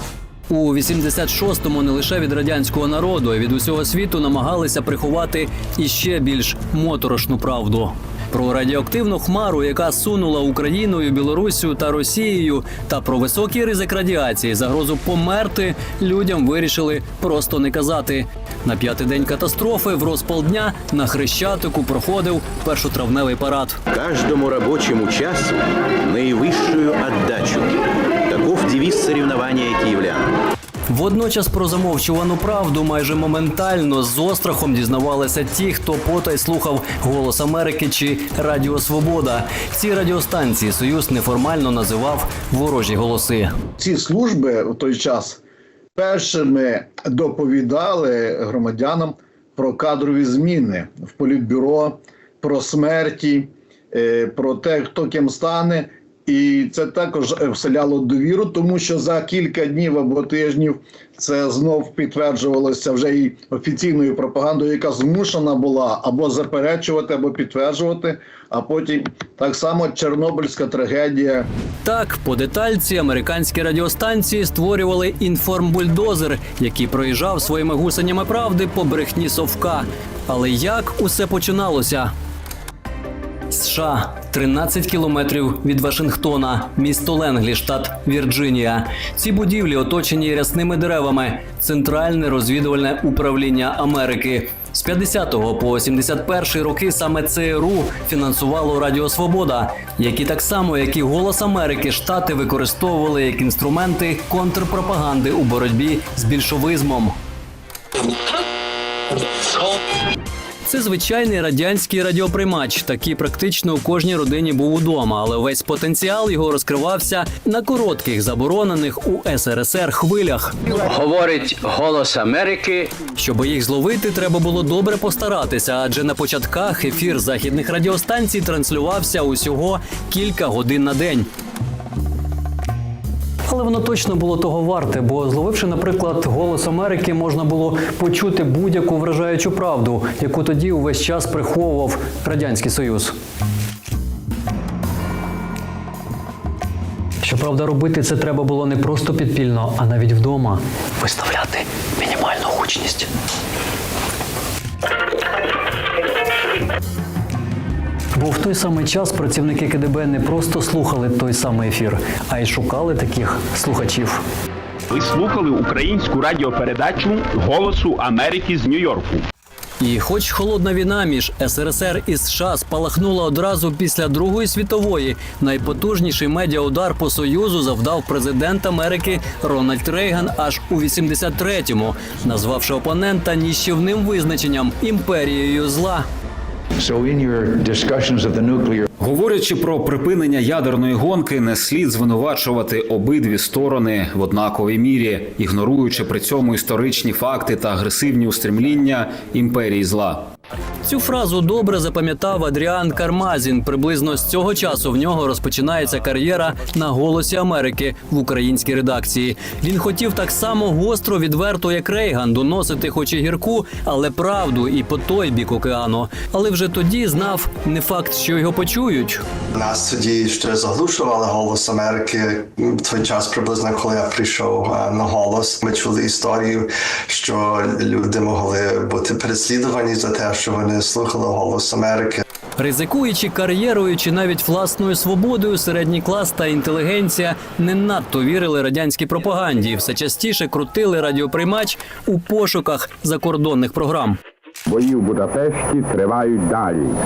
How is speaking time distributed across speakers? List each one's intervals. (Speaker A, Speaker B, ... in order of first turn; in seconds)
Speaker A: 0.5-23.8, 30.9-43.5, 71.8-82.1, 83.5-107.1, 110.7-120.5, 123.2-131.3, 133.5-143.2, 147.2-153.1, 158.2-164.2, 169.8-186.1, 200.8-219.2, 232.6-244.2
Speaker B: 23.9-30.4
Speaker C: 43.8-45.4, 46.0-71.5
Speaker D: 120.7-122.9
Speaker E: 164.9-169.2
Speaker F: 186.8-188.9, 244.7-246.9
Speaker G: 189.0-200.3
Speaker H: 219.5-232.2